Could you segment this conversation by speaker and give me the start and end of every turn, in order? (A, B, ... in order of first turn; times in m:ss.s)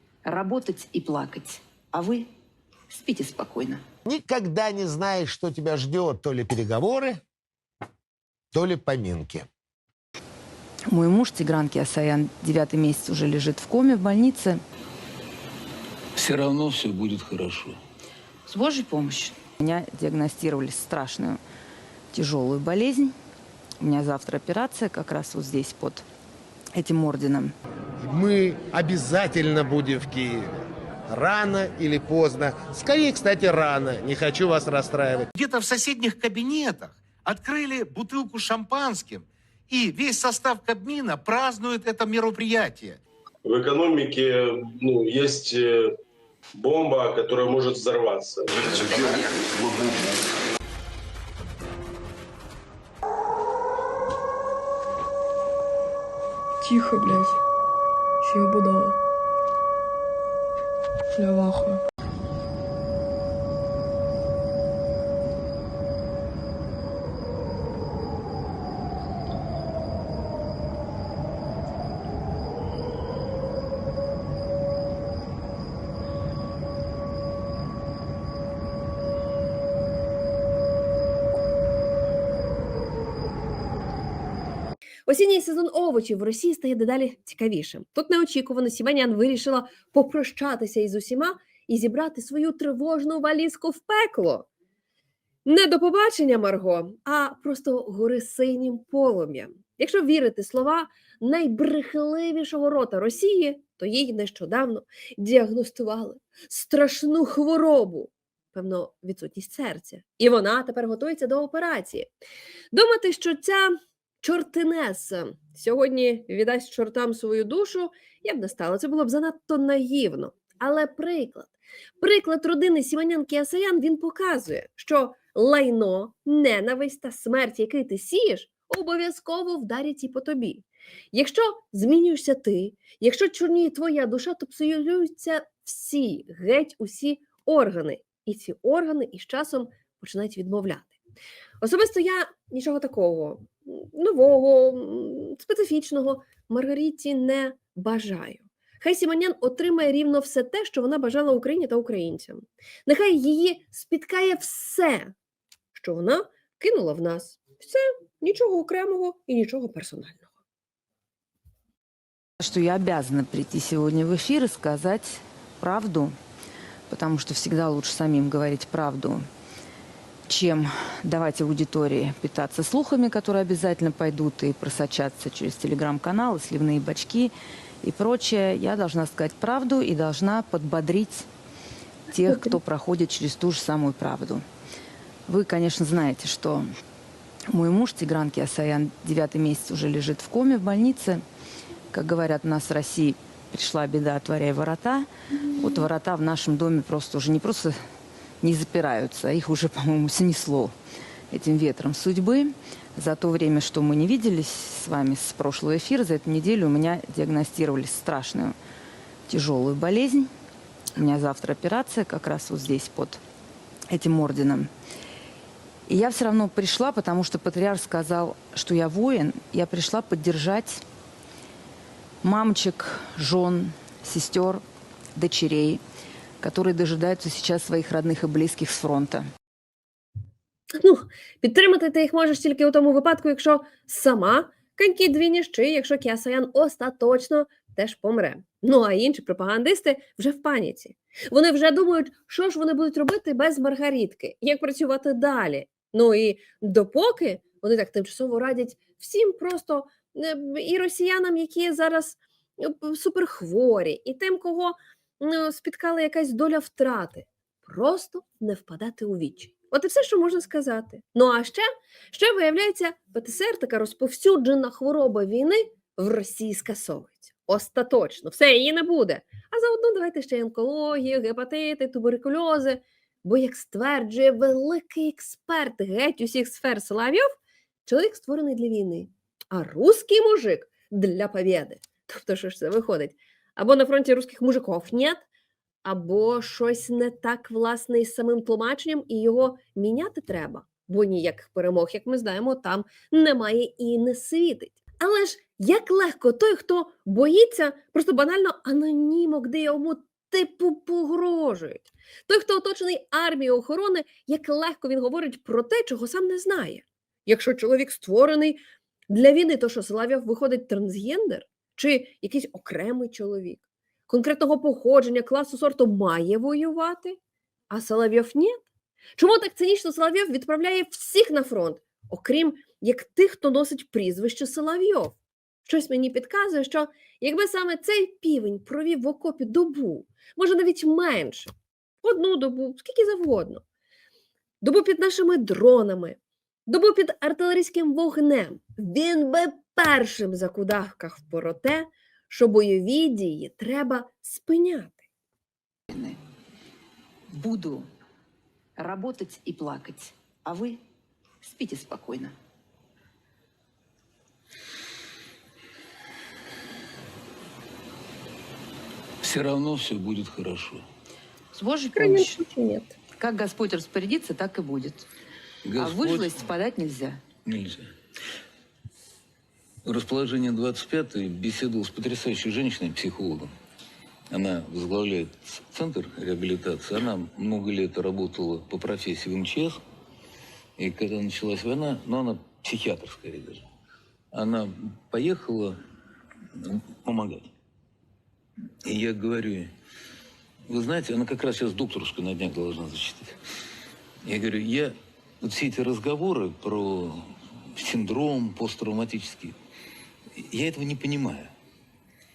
0:00.2-0:02.3 A
0:02.9-0:03.8 A
0:04.0-0:07.2 B
0:08.5-0:09.5 B
0:10.9-0:14.6 A
0:16.2-0:17.8 C
0:18.4-0:21.4 A
0:22.1-0:23.1 A
0:23.8-0:26.0 A
0:26.7-0:27.5 A
0:28.0-0:30.5 B
0:31.1-0:35.3 B
0:35.3-0:43.0 D
0:43.4-0:46.0 E
0:46.6-0:49.2 E
0:56.6-0:57.4 F
0:58.2-0:59.0 F
1:01.1-1:01.8 F
1:25.1-1:34.5 G
1:35.4-1:52.1 G
1:52.7-2:21.0 G
2:21.6-2:35.1 G
2:35.7-2:40.3 G
2:42.4-2:46.1 A
2:46.9-2:49.2 A
2:50.3-3:01.3 A
3:02.1-3:04.4 A
3:05.3-3:06.6 A
3:07.5-3:11.2 A
3:11.9-3:17.8 A
3:18.4-3:20.7 A
3:21.3-3:28.6 A
3:29.3-3:30.3 A
3:31.0-3:33.2 A
3:33.9-3:34.7 A
3:35.9-3:40.8 A
3:42.2-3:44.6 A
3:45.2-3:45.8 A
3:46.4-3:49.3 A
3:50.7-4:37.3 G
4:37.8-4:45.2 G
4:45.8-5:17.2 G
5:17.7-5:18.6 G
5:19.2-5:31.5 G
5:32.0-5:33.6 G
5:34.6-5:45.0 G
5:45.9-5:46.2 A
5:47.3-5:47.8 A
5:48.8-5:50.8 A
5:51.4-5:52.3 A
5:59.2-6:00.8 C
6:01.5-6:02.4 A
6:01.9-6:02.9 G
6:03.2-6:05.1 A
6:05.6-6:06.4 C
6:05.8-6:07.2 A
6:07.4-6:07.9 C
6:09.8-6:13.5 C
6:14.3-6:19.8 C
6:20.8-6:23.6 C
6:24.3-6:25.8 C
6:26.5-6:27.5 C
6:28.8-6:29.7 C
6:30.7-6:33.4 C
6:34.2-6:39.5 C
6:40.3-6:41.5 C